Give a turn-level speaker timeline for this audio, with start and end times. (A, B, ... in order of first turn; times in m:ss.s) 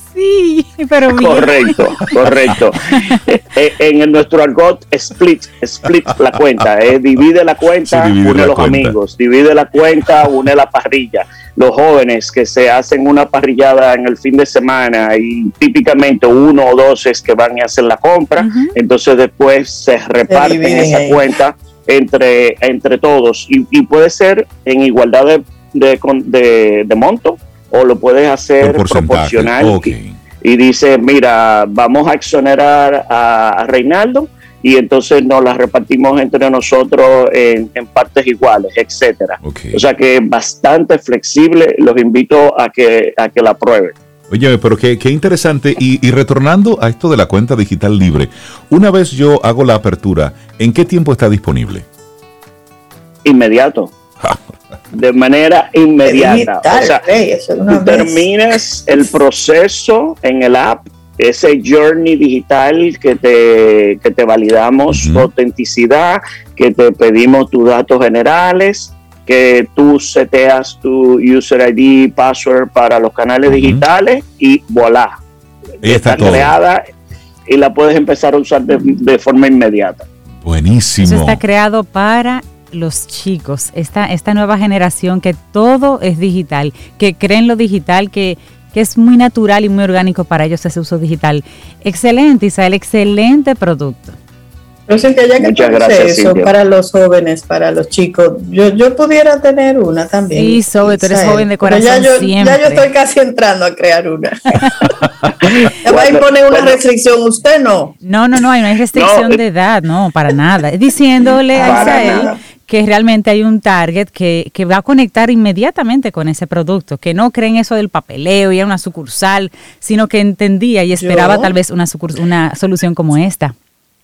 0:00.1-0:02.0 A
0:01.1-0:44.0 B
0:07.9-0:09.0 C
0:18.4-0:18.7 A
0:20.3-0:21.3 D
0:28.6-0:30.2 C
0:39.4-0:39.8 C
0:44.3-0:51.9 C
0:53.2-0:53.9 B
0:54.9-0:57.0 B
0:56.0-0:58.3 D
0:57.7-1:15.2 B
1:04.9-1:05.3 C
1:13.5-1:13.8 C
1:15.8-1:16.9 B
1:15.8-1:16.5 C
1:17.5-1:20.1 B
1:20.4-1:21.4 C
1:21.0-1:34.2 A
1:34.9-1:44.9 D
1:35.4-1:36.5 B
1:40.3-1:42.8 A
1:45.4-1:48.0 D
1:45.8-1:46.8 B
1:48.0-2:03.6 A
1:48.9-1:49.4 B
1:51.5-1:52.3 B
1:51.5-1:52.4 D
2:01.0-2:01.6 D